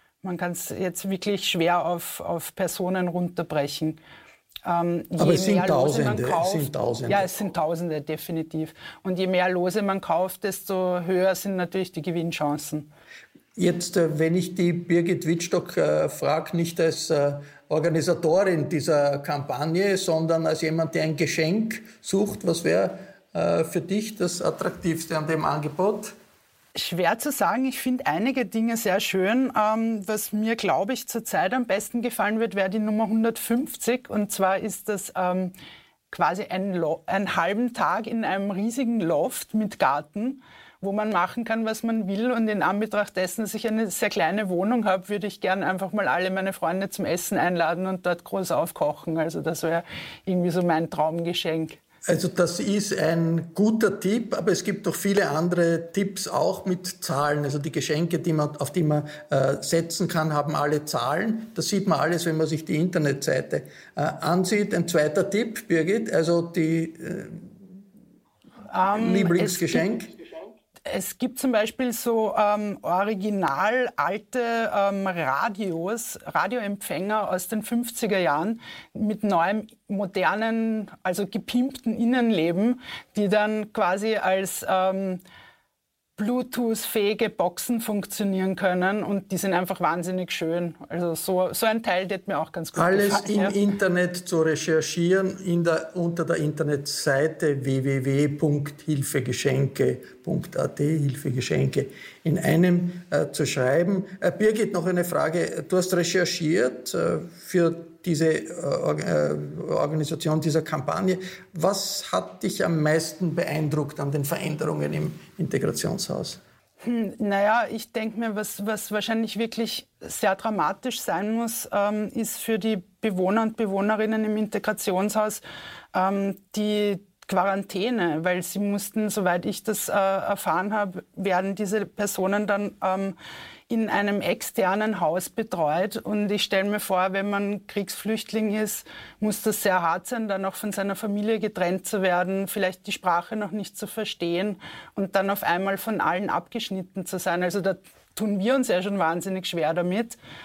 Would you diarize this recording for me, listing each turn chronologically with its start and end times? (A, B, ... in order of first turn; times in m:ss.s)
0:00.2-0:04.0 A
0:04.7-0:12.9 A
0:05.2-0:07.3 B
0:13.6-0:26.2 B
0:26.8-0:35.5 A
0:36.1-0:51.8 A
0:52.1-1:07.6 B
1:08.7-1:09.9 A
1:08.9-1:10.1 B
1:10.9-1:25.2 A
1:26.2-1:33.6 A
1:32.8-1:56.4 B
1:56.8-2:05.4 A
2:05.9-2:13.2 A
2:13.7-2:30.2 A